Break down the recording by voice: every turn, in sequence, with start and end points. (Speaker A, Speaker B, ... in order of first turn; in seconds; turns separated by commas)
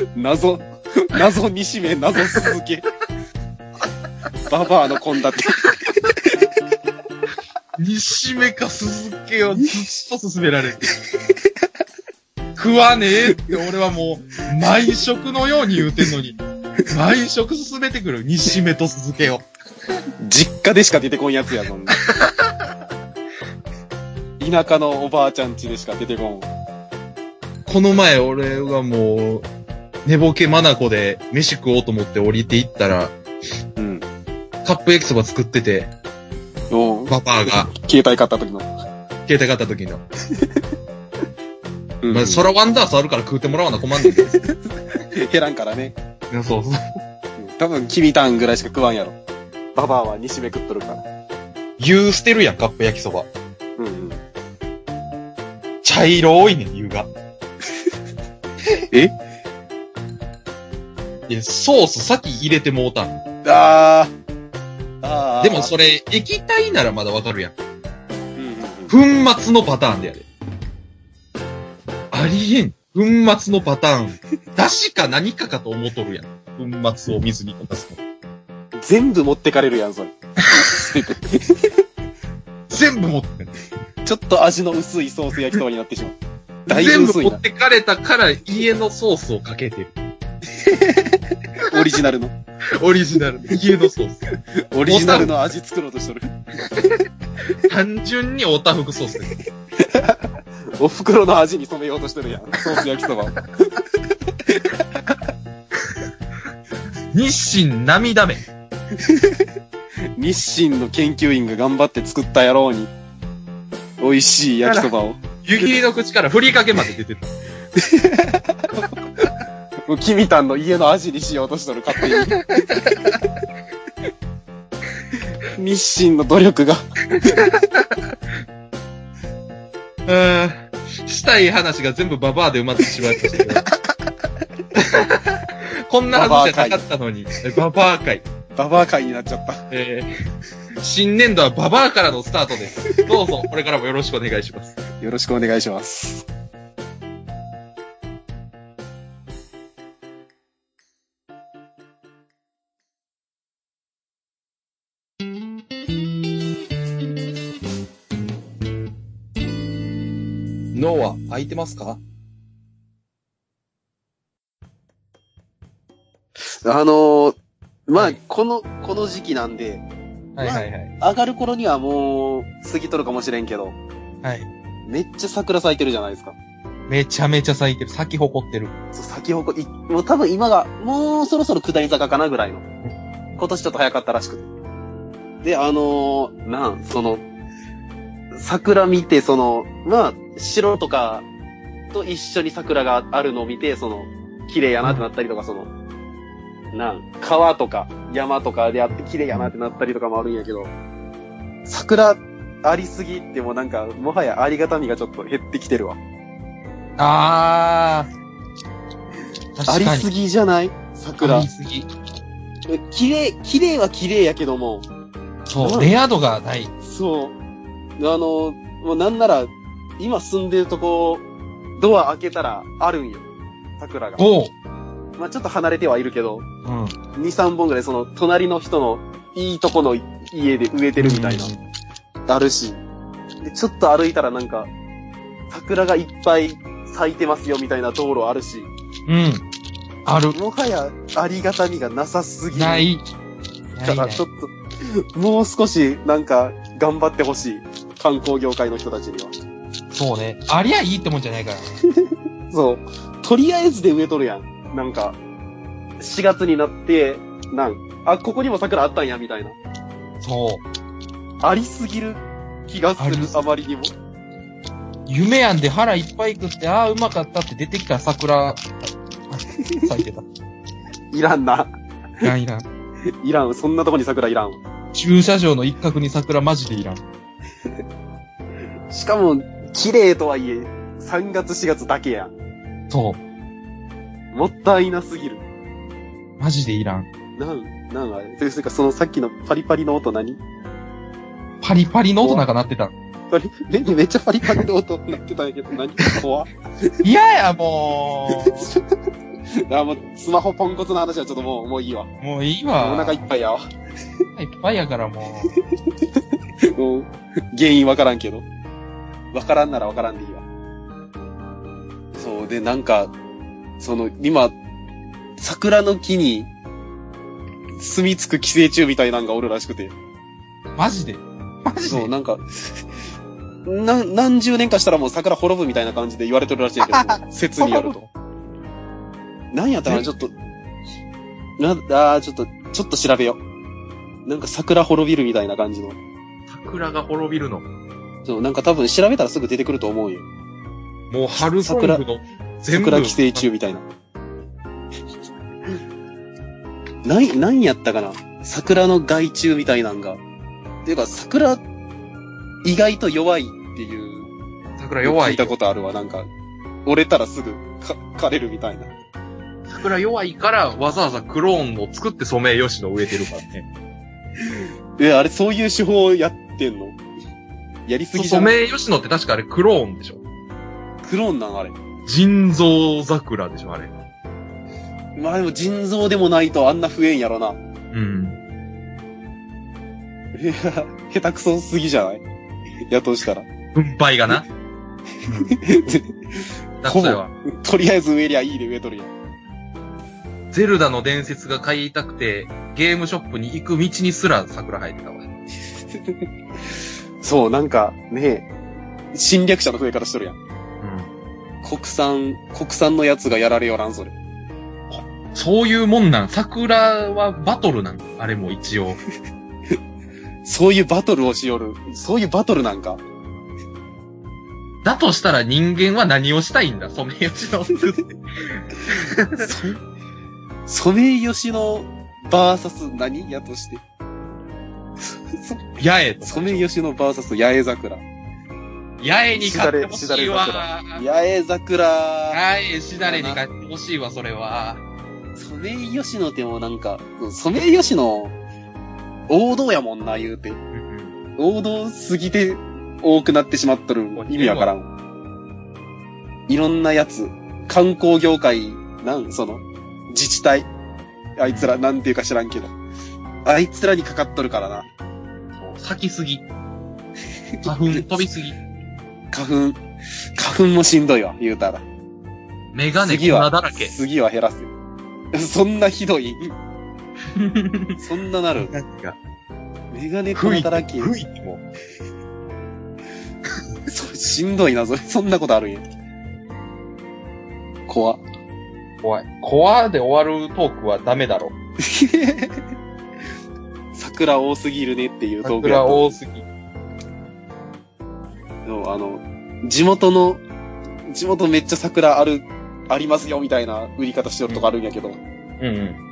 Speaker A: 0.1-2.9, Speaker B: 2.2-2.5, Speaker A: 4.5-6.5, Speaker B: 7.8-10.9, Speaker B: 12.6-19.4, Speaker A: 20.2-22.0, Speaker B: 22.0-22.5, Speaker A: 24.4-26.5, Speaker B: 27.6-29.5, Speaker B: 30.0-33.1, Speaker A: 33.8-34.0, Speaker B: 34.6-35.9, Speaker A: 36.7-38.7, Speaker B: 37.1-37.7, Speaker B: 39.2-40.0, Speaker A: 40.3-40.6, Speaker A: 42.0-42.5, Speaker B: 42.1-44.4, Speaker A: 44.0-46.0, Speaker B: 46.3-46.8, Speaker A: 47.4-49.2, Speaker A: 49.7-51.0, Speaker B: 51.8-53.3, Speaker A: 53.8-54.2, Speaker B: 55.8-57.1, Speaker B: 61.3-63.2, Speaker A: 63.4-64.1, Speaker A: 65.0-65.7, Speaker B: 65.4-67.5, Speaker A: 68.4-69.0, Speaker B: 68.9-70.2, Speaker B: 72.1-78.0, Speaker A: 78.8-81.7, Speaker B: 80.5-80.9, Speaker B: 82.7-83.5, Speaker A: 84.0-86.2, Speaker B: 86.7-89.9, Speaker A: 86.7-87.4, Speaker A: 90.5-92.3, Speaker B: 92.8-94.2, Speaker A: 94.5-96.3, Speaker B: 94.8-95.3, Speaker B: 97.6-99.3, Speaker A: 99.8-105.2, Speaker B: 107.1-108.4, Speaker A: 108.9-109.5, Speaker A: 110.2-112.9, Speaker A: 114.0-115.7, Speaker B: 114.6-114.9, Speaker B: 115.4-117.3, Speaker A: 117.8-119.3, Speaker A: 119.9-123.0, Speaker B: 122.0-123.2, Speaker A: 125.5-127.5, Speaker B: 127.1-128.1, Speaker B: 130.1-133.7, Speaker A: 133.2-133.5, Speaker B: 134.7-138.2, Speaker A: 136.1-136.8, Speaker A: 138.5-139.6, Speaker B: 139.7-140.1, Speaker B: 140.8-144.8, Speaker A: 142.8-143.1, Speaker A: 145.0-146.3, Speaker B: 160.7-162.0, Speaker A: 166.4-167.3, Speaker A: 167.9-169.8, Speaker B: 170.3-170.9, Speaker A: 170.4-173.8, Speaker B: 174.2-174.5, Speaker A: 174.9-176.3, Speaker B: 176.9-178.7, Speaker A: 178.9-182.7, Speaker A: 183.4-184.5, Speaker A: 185.4-187.2, Speaker A: 188.3-191.2, Speaker A: 191.9-195.7, Speaker A: 196.7-200.7, Speaker A: 201.7-206.0, Speaker B: 207.0-208.1, Speaker B: 209.6-210.1, Speaker A: 209.7-211.5, Speaker B: 211.2-211.9, Speaker A: 212.7-214.8, Speaker B: 215.5-216.7, Speaker A: 215.6-215.9, Speaker A: 216.8-217.3, Speaker A: 218.0-221.2, Speaker A: 221.8-223.3, Speaker A: 223.8-224.2, Speaker B: 224.2-224.5, Speaker A: 225.2-226.4, Speaker B: 226.6-226.9, Speaker A: 227.1-231.5, Speaker B: 231.0-231.6, Speaker A: 232.3-232.8, Speaker A: 233.4-234.7, Speaker A: 235.5-238.7, Speaker B: 239.1-239.4, Speaker B: 240.1-240.4, Speaker A: 240.3-242.9, Speaker B: 242.5-243.0, Speaker B: 243.8-244.2, Speaker A: 243.8-249.3, Speaker B: 249.9-251.7, Speaker A: 251.9-255.2, Speaker A: 256.0-259.6, Speaker B: 260.2-260.6, Speaker A: 261.4-263.9, Speaker B: 263.0-263.4, Speaker B: 265.1-268.7, Speaker B: 269.3-270.3, Speaker A: 269.5-269.9, Speaker A: 271.1-271.7, Speaker B: 272.2-272.7, Speaker A: 273.2-274.6, Speaker B: 274.9-277.0, Speaker A: 278.9-282.3, Speaker B: 282.9-283.2, Speaker A: 284.3-285.4, Speaker B: 286.4-287.1, Speaker A: 287.4-290.4, Speaker B: 291.6-292.9, Speaker A: 293.3-296.9, Speaker B: 297.0-298.7, Speaker A: 298.3-298.9, Speaker A: 299.5-302.1, Speaker B: 302.2-303.3, Speaker A: 302.8-303.6, Speaker B: 304.4-305.5, Speaker A: 305.6-308.4, Speaker A: 309.3-310.4, Speaker A: 312.1-313.1, Speaker A: 313.8-314.6, Speaker A: 315.4-316.5, Speaker A: 317.8-319.9, Speaker B: 320.8-322.1, Speaker A: 321.8-322.6, Speaker A: 323.6-328.0, Speaker B: 326.8-328.1, Speaker A: 329.5-330.3, Speaker B: 329.9-330.1, Speaker A: 331.6-333.4, Speaker A: 334.2-336.0, Speaker B: 336.5-337.6, Speaker A: 338.2-340.3, Speaker B: 341.1-343.5, Speaker A: 341.6-342.0, Speaker A: 342.7-343.8, Speaker A: 347.0-350.2, Speaker A: 350.8-351.6, Speaker A: 352.6-354.3, Speaker B: 354.8-355.5, Speaker A: 355.0-356.3, Speaker A: 356.9-358.9, Speaker B: 359.7-363.6, Speaker A: 364.4-367.0, Speaker A: 367.9-368.5, Speaker B: 368.1-370.2, Speaker A: 371.0-371.7, Speaker B: 372.1-373.9, Speaker A: 375.1-377.6, Speaker B: 377.9-378.4, Speaker A: 380.4-382.2, Speaker A: 382.9-383.5, Speaker B: 383.7-384.4, Speaker B: 385.2-385.6, Speaker A: 385.3-389.1, Speaker B: 386.8-387.3, Speaker B: 390.5-395.3, Speaker A: 396.0-396.2, Speaker A: 397.2-398.5, Speaker A: 399.1-400.4, Speaker B: 400.8-401.1, Speaker A: 401.6-404.1, Speaker B: 404.9-409.0, Speaker A: 410.4-413.0, Speaker B: 414.8-419.5, Speaker A: 419.4-419.8, Speaker A: 420.7-423.8, Speaker A: 425.0-425.7, Speaker B: 425.8-426.7, Speaker A: 426.2-428.0, Speaker B: 429.0-431.0, Speaker A: 429.4-432.4, Speaker B: 432.3-434.8, Speaker A: 433.0-433.4, Speaker A: 435.4-438.4, Speaker A: 439.3-440.6, Speaker B: 440.7-441.1, Speaker A: 441.4-444.9, Speaker B: 444.1-444.7, Speaker A: 446.5-450.7, Speaker A: 451.4-452.7, Speaker B: 451.4-451.7, Speaker A: 453.4-454.9, Speaker B: 455.6-456.4, Speaker A: 457.6-458.0, Speaker B: 457.6-458.6, Speaker A: 459.3-459.8, Speaker A: 460.4-461.8, Speaker B: 462.7-463.9, Speaker A: 463.0-464.7, Speaker A: 465.3-466.5, Speaker B: 467.3-468.0, Speaker A: 468.0-468.7, Speaker B: 468.6-469.2, Speaker A: 469.9-471.1, Speaker B: 470.3-471.6, Speaker A: 473.9-475.8, Speaker A: 477.9-478.2, Speaker B: 479.0-481.5, Speaker A: 481.8-482.6, Speaker A: 483.9-486.1, Speaker B: 485.4-486.4, Speaker A: 488.6-490.4, Speaker A: 491.1-495.2, Speaker B: 495.6-496.0